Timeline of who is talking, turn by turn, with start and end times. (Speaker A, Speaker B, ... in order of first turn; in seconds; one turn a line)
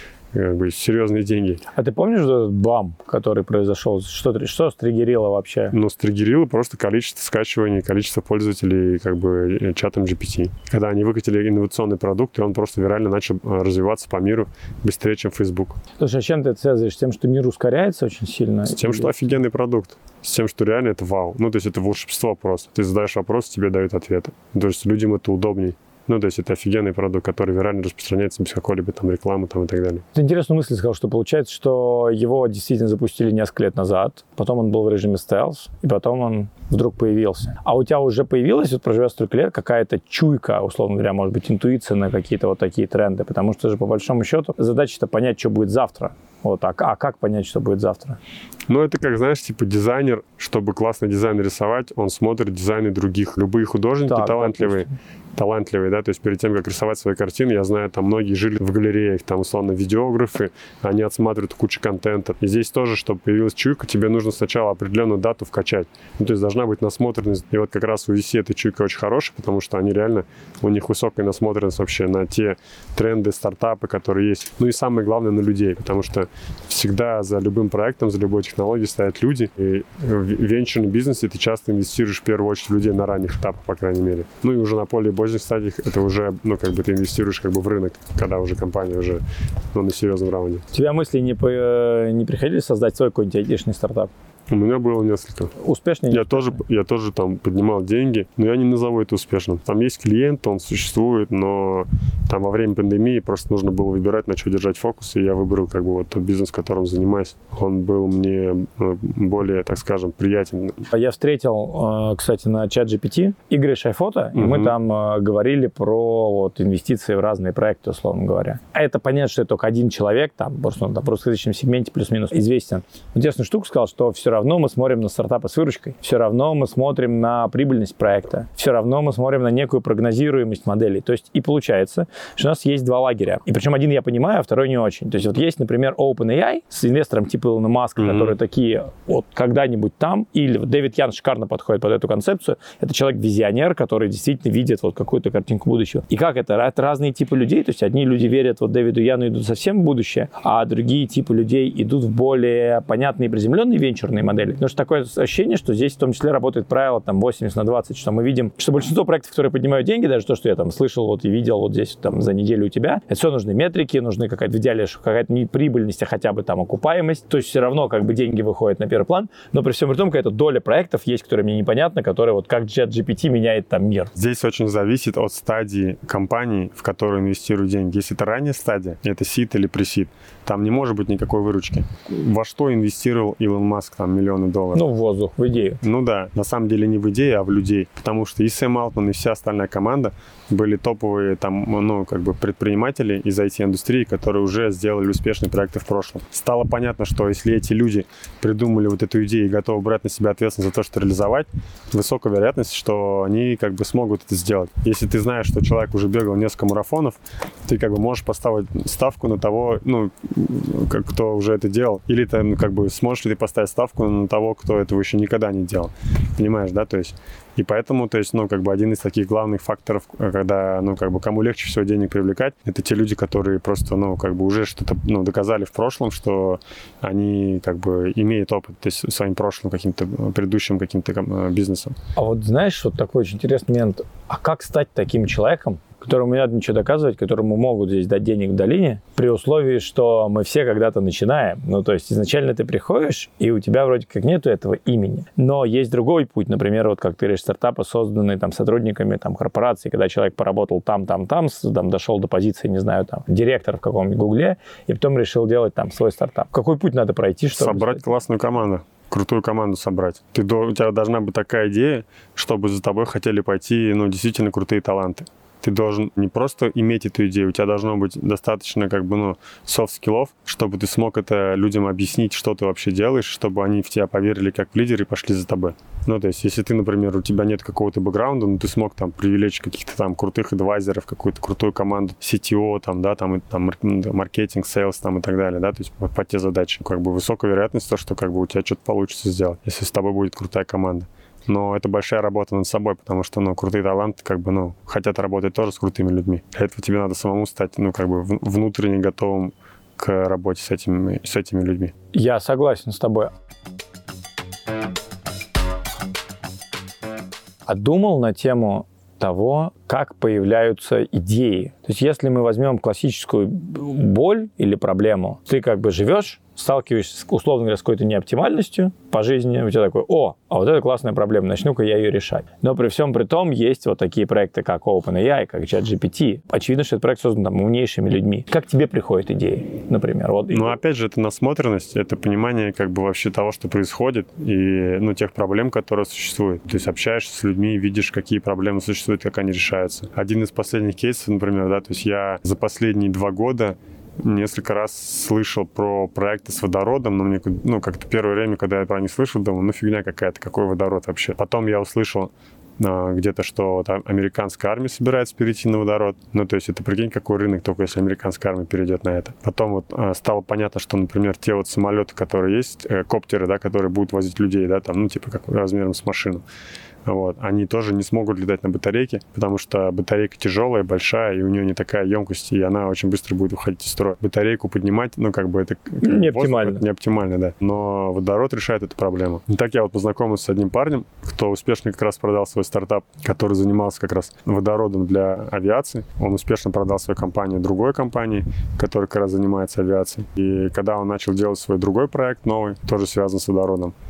Speaker A: 0.3-1.6
Speaker B: 1.7-5.8
Speaker A: 5.7-15.8
Speaker B: 16.0-19.1
Speaker A: 18.7-30.1
Speaker B: 30.1-48.2
Speaker A: 48.7-90.7
Speaker B: 54.1-54.9
Speaker B: 90.7-94.1
Speaker A: 94.5-95.5
Speaker B: 95.6-96.6
Speaker A: 96.1-110.9
Speaker B: 110.9-174.1
Speaker A: 114.3-114.8
Speaker A: 138.0-138.4
Speaker A: 174.2-184.8
Speaker B: 184.8-185.8
Speaker A: 185.8-232.0
Speaker B: 232.2-258.0
Speaker A: 257.6-301.9
Speaker B: 302.1-303.3
Speaker B: 307.7-330.8
Speaker A: 330.5-366.4
Speaker A: 367.1-393.9
Speaker B: 376.0-376.8